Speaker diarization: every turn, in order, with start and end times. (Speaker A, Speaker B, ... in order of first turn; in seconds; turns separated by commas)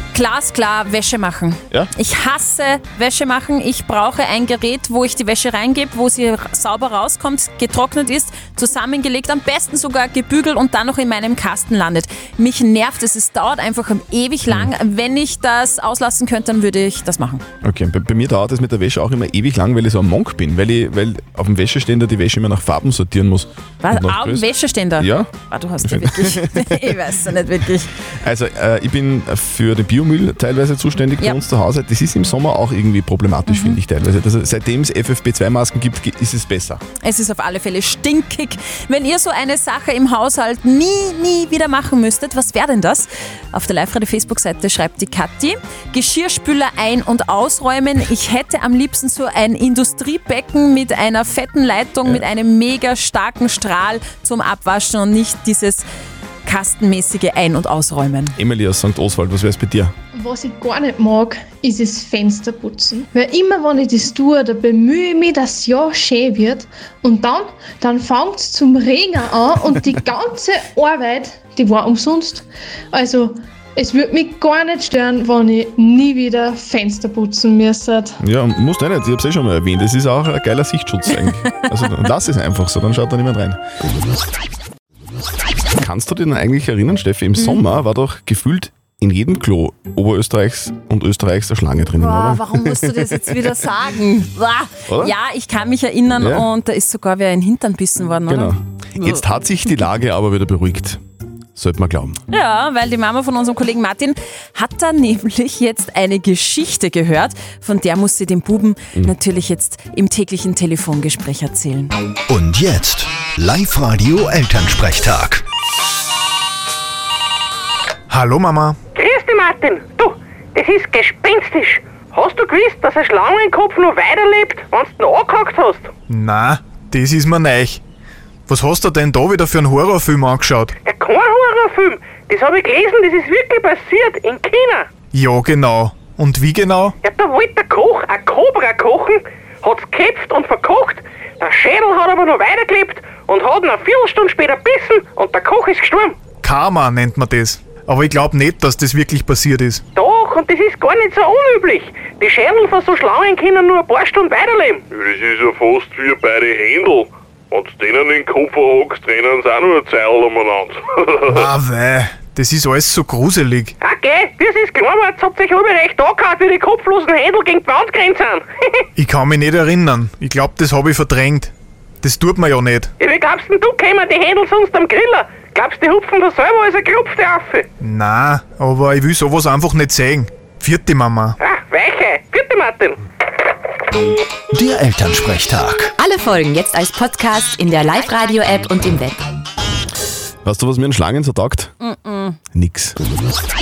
Speaker A: 0.1-17.4, Speaker B: 17.6-25.3, Speaker A: 23.8-27.9, Speaker B: 25.8-27.0, Speaker B: 28.2-36.8, Speaker A: 33.5-33.8, Speaker A: 37.0-55.9, Speaker A: 56.5-58.4, Speaker B: 58.4-59.9, Speaker C: 60.1-78.2, Speaker B: 78.2-83.6, Speaker B: 85.8-93.1, Speaker A: 91.9-99.2, Speaker B: 94.9-95.2, Speaker B: 96.2-96.5, Speaker B: 98.3-101.0, Speaker B: 101.6-102.2, Speaker A: 102.3-112.0, Speaker D: 112.3-115.4, Speaker E: 118.1-118.8, Speaker F: 119.0-125.9, Speaker E: 126.1-127.8, Speaker E: 128.5-130.7, Speaker F: 130.9-134.8, Speaker E: 135.1-136.9, Speaker F: 137.0-146.1, Speaker E: 146.4-149.8, Speaker F: 150.0-154.8, Speaker G: 154.9-161.4, Speaker E: 161.3-163.7, Speaker F: 163.8-168.4, Speaker E: 169.0-171.5, Speaker E: 172.0-172.9, Speaker F: 173.0-177.6, Speaker E: 177.8-181.3, Speaker F: 181.4-182.9, Speaker D: 184.5-185.9, Speaker H: 186.0-189.2, Speaker B: 190.4-191.7, Speaker A: 191.8-192.4, Speaker B: 192.5-193.0